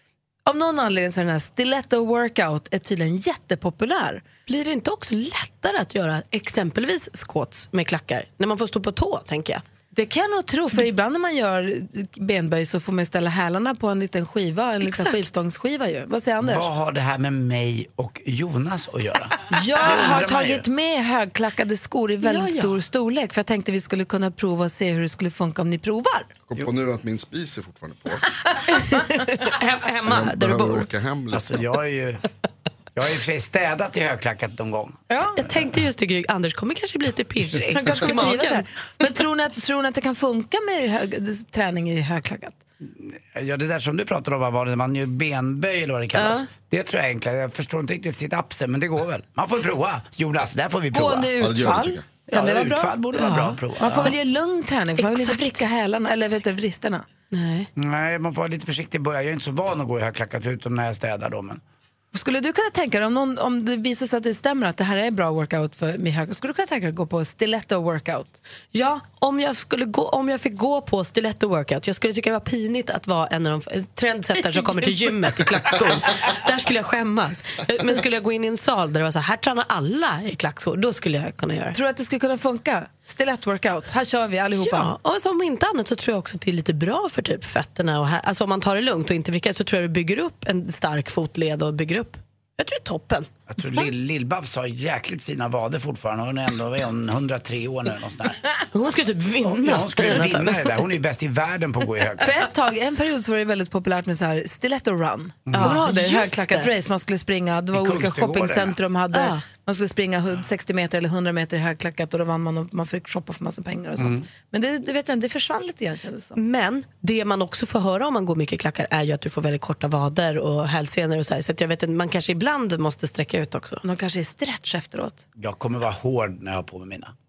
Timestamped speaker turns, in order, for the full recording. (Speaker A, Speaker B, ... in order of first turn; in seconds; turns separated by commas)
Speaker A: 0.5-4.2, Speaker B: 4.5-9.6, Speaker A: 9.9-16.7, Speaker B: 14.8-15.2, Speaker C: 16.4-20.6, Speaker A: 19.5-26.3, Speaker B: 22.2-22.8, Speaker D: 26.5-28.2, Speaker A: 28.7-29.3, Speaker B: 29.4-30.9, Speaker D: 30.0-31.5, Speaker C: 31.3-32.2, Speaker C: 33.0-35.0, Speaker B: 35.3-38.6, Speaker A: 37.7-42.6, Speaker C: 42.8-51.3, Speaker B: 46.1-46.5, Speaker A: 50.9-57.0, Speaker D: 51.4-52.0, Speaker C: 52.3-54.2, Speaker B: 55.0-55.6, Speaker B: 57.3-57.7, Speaker C: 57.8-61.6, Speaker A: 62.1-68.4, Speaker B: 68.7-81.8, Speaker A: 81.7-84.9, Speaker B: 84.6-93.3, Speaker C: 93.5-98.4, Speaker B: 98.7-100.7, Speaker C: 99.5-102.3, Speaker A: 102.2-116.4, Speaker C: 105.5-105.8, Speaker B: 105.5-106.7, Speaker C: 107.7-108.8, Speaker B: 109.1-109.4, Speaker C: 114.0-114.2, Speaker B: 116.4-123.8, Speaker A: 123.8-125.2, Speaker C: 125.4-127.1